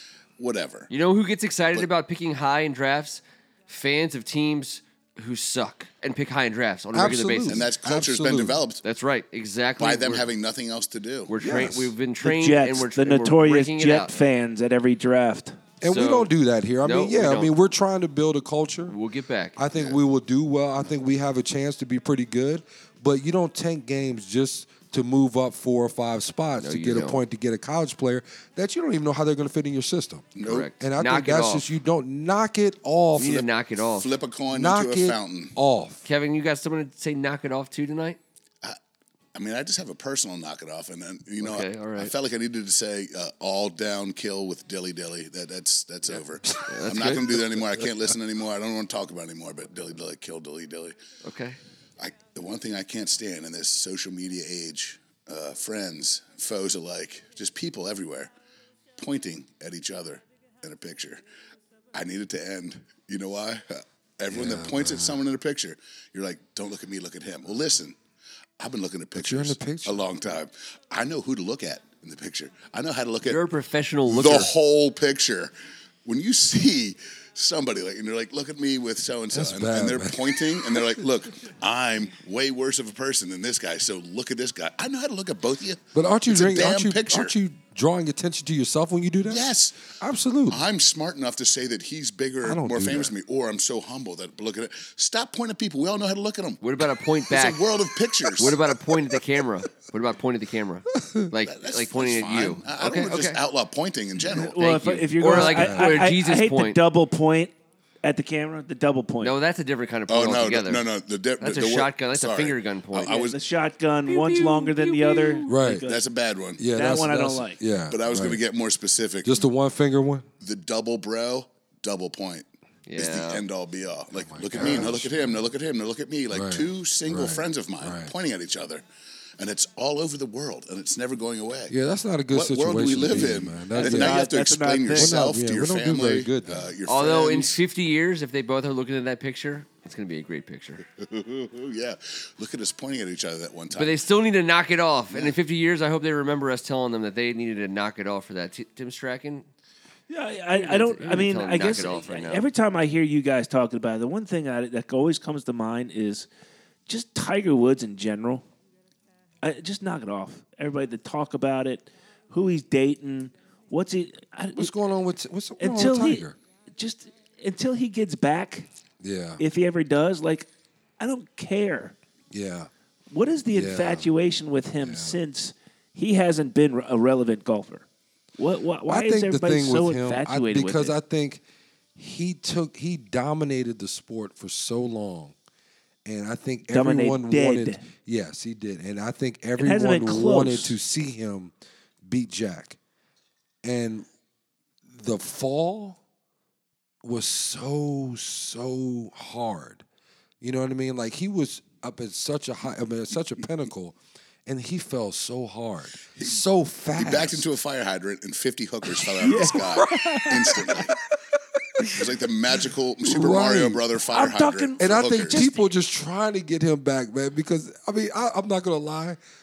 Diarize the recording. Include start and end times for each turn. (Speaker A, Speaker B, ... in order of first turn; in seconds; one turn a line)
Speaker A: 0.4-0.9
Speaker B: 0.9-7.6
Speaker C: 6.9-8.6
Speaker A: 7.5-8.8
Speaker B: 8.8-10.2
Speaker A: 9.8-11.3
Speaker B: 11.3-14.2
Speaker C: 11.4-11.9
Speaker D: 12.2-15.6
Speaker C: 15.8-18.9
Speaker B: 15.8-16.3
Speaker B: 16.8-17.5
Speaker B: 18.9-19.9
Speaker C: 19.6-33.5
Speaker B: 26.6-27.2
Speaker A: 30.4-30.7
Speaker B: 30.4-31.7
Speaker B: 33.2-34.1
Speaker A: 33.9-35.5
Speaker C: 34.5-36.0
Speaker B: 36.0-38.2
Speaker A: 39.4-51.0
Speaker B: 41.4-42.1
Speaker B: 46.6-47.9
Speaker B: 51.2-51.6
Speaker A: 52.0-58.3
Speaker A: 59.0-61.2
Speaker A: 61.9-67.9
Speaker C: 64.3-65.2
Speaker A: 68.6-73.4
Speaker C: 69.2-70.0
Speaker B: 73.3-74.5
Speaker A: 74.1-75.5
Speaker A: 76.0-87.3
Speaker C: 79.3-81.0
Speaker C: 85.9-90.6
Speaker A: 89.2-89.9
Speaker A: 90.5-96.6
Speaker C: 92.4-93.1
Speaker B: 96.6-97.6
Speaker A: 97.3-98.6
Speaker B: 98.3-103.4
Speaker C: 101.0-101.3
Speaker A: 101.5-105.0
Speaker D: 104.2-107.5
Speaker B: 104.6-106.8
Speaker C: 105.3-105.9
Speaker D: 108.0-109.4
Speaker B: 109.2-110.8
Speaker A: 110.1-113.4
Speaker B: 111.4-113.3
Speaker D: 113.1-116.0
Speaker B: 114.1-115.6
Speaker C: 115.5-115.8
Speaker A: 115.9-116.6
Speaker C: 116.6-118.4
Speaker D: 116.7-117.6
Speaker A: 117.9-119.4
Speaker C: 119.2-120.2
Speaker A: 120.4-128.8
Speaker B: 122.9-123.4
Speaker C: 124.2-125.4
Speaker C: 126.3-128.1
Speaker A: 129.4-131.7
Speaker C: 131.7-134.2
Speaker A: 132.3-137.6
Speaker D: 133.7-135.1
Speaker C: 134.9-136.7
Speaker B: 136.9-140.8
Speaker A: 141.0-144.0
Speaker B: 143.8-149.5
Speaker A: 145.1-145.4
Speaker D: 150.1-156.3
Speaker B: 150.5-152.5
Speaker D: 156.9-158.4
Speaker D: 159.4-164.7
Speaker C: 164.6-166.4
Speaker D: 165.6-166.2
Speaker D: 166.8-168.7
Speaker C: 169.0-169.4
Speaker D: 169.4-170.5
Speaker D: 171.0-171.9
Speaker C: 172.3-172.7
Speaker D: 173.1-177.8
Speaker C: 173.5-174.1
Speaker C: 174.8-175.2
Speaker D: 178.4-180.9
Speaker C: 178.9-181.4
Speaker C: 181.9-185.3
Speaker C: 186.1-191.5
Speaker D: 186.7-187.8
Speaker D: 189.6-190.7
Speaker C: 192.0-192.8
Speaker C: 193.6-194.1
Speaker C: 194.9-196.0
Speaker C: 197.0-199.8
Speaker C: 200.4-207.4
Speaker A: 206.9-210.9
Speaker C: 209.1-210.9
Speaker D: 209.2-210.8
Speaker C: 211.7-212.1
Speaker A: 211.9-215.4
Speaker C: 213.0-213.8
Speaker D: 214.1-215.7
Speaker C: 214.8-219.2